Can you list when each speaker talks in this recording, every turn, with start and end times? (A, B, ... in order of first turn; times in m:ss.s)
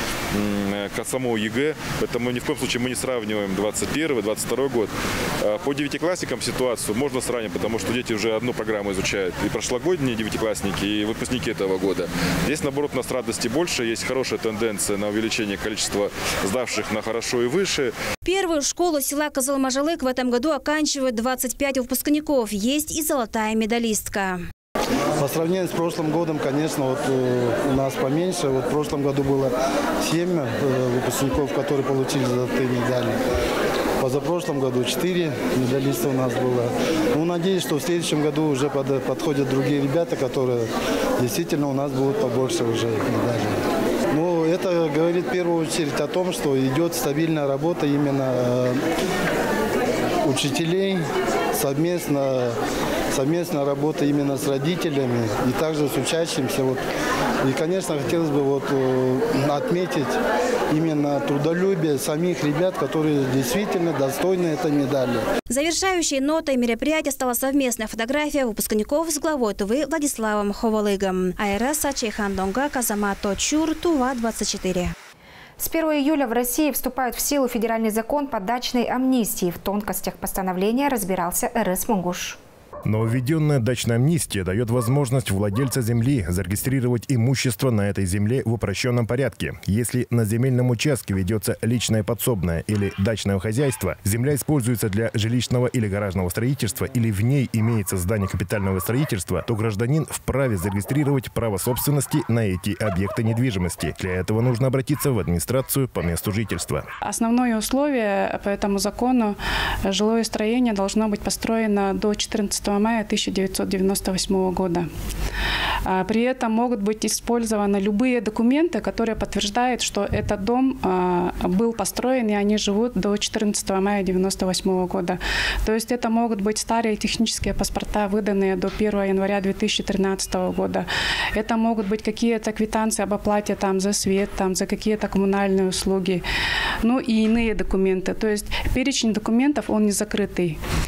0:00.3-0:17.9 A
0:18.2-0:24.4 B
0:25.2-0:33.2 C
0:34.0-0:40.7 C
0:41.2-0:43.6 C
0:44.1-0:48.8 C
0:50.2-0:52.6 C
0:53.1-0:56.8 C
0:57.4-1:00.2 C
1:00.7-1:05.2 C
1:05.5-1:14.9 B
1:15.6-1:22.4 D
1:22.9-1:46.8 E
1:47.1-1:54.9 F
1:55.9-2:16.2 F
2:16.8-2:20.6 F